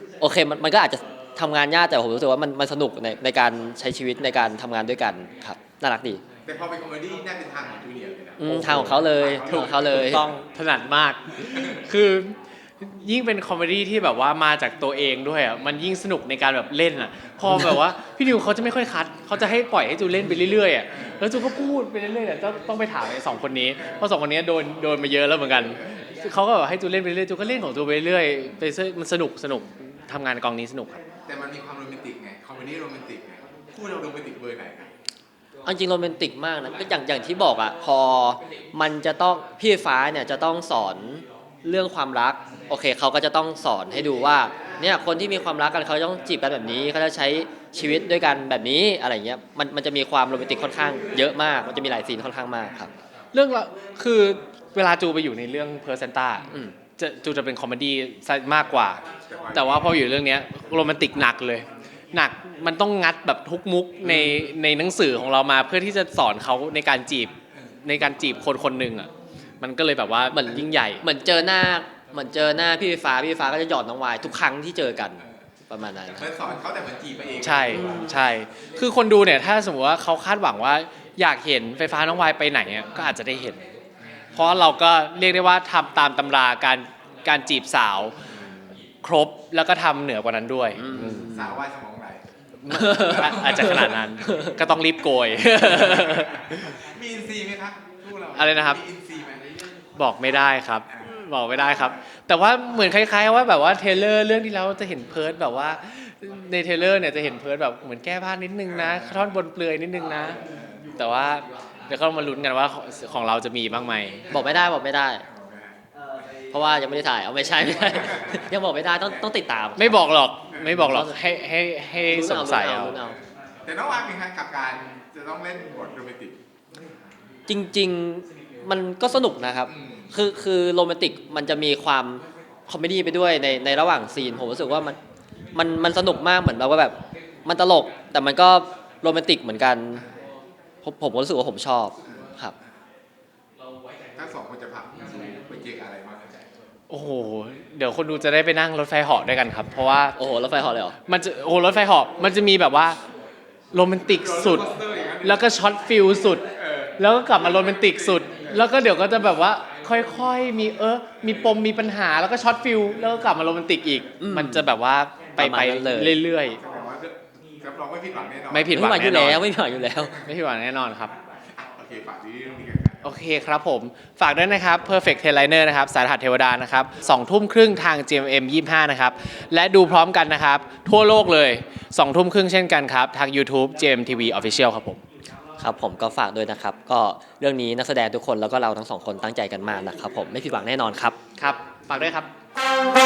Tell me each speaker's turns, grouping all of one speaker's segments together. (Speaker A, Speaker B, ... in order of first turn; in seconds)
Speaker A: 0.2-6.2, 8.4-10.3, 35.6-52.9, 64.0-64.5, 70.3-76.3, 77.7-78.2, 90.8-91.6, 92.7-94.5, 114.3-115.2, 116.5-120.0, 120.7-121.2, 122.1-123.2, 127.5-135.0, 135.5-140.0, 140.8-142.5, 150.2-150.9, 164.2-164.7, 165.4-166.2, 168.7-170.2, 185.6-191.2
Speaker B: 6.5-10.1, 31.2-34.9, 59.3-60.0, 76.1-77.9, 91.1-92.2, 92.8-94.0, 95.6-99.5, 115.3-115.7, 120.5-120.8, 123.6-126.4, 129.7-130.1, 144.2-146.4, 154.0-155.4, 156.6-158.6, 166.6-169.0, 171.6-173.1
Speaker C: 8.5-31.0, 53.3-69.1, 69.6-71.0, 77.4-83.6, 84.3-88.1, 89.0-91.2, 92.6-96.8, 98.3-98.8, 100.0-110.4, 111.0-114.2, 119.8-123.0, 146.9-150.2, 151.1-153.0, 153.7-154.7, 155.2-156.4, 157.0-166.6, 168.5-169.4, 170.2-171.1, 173.0-185.0, 191.4-192.3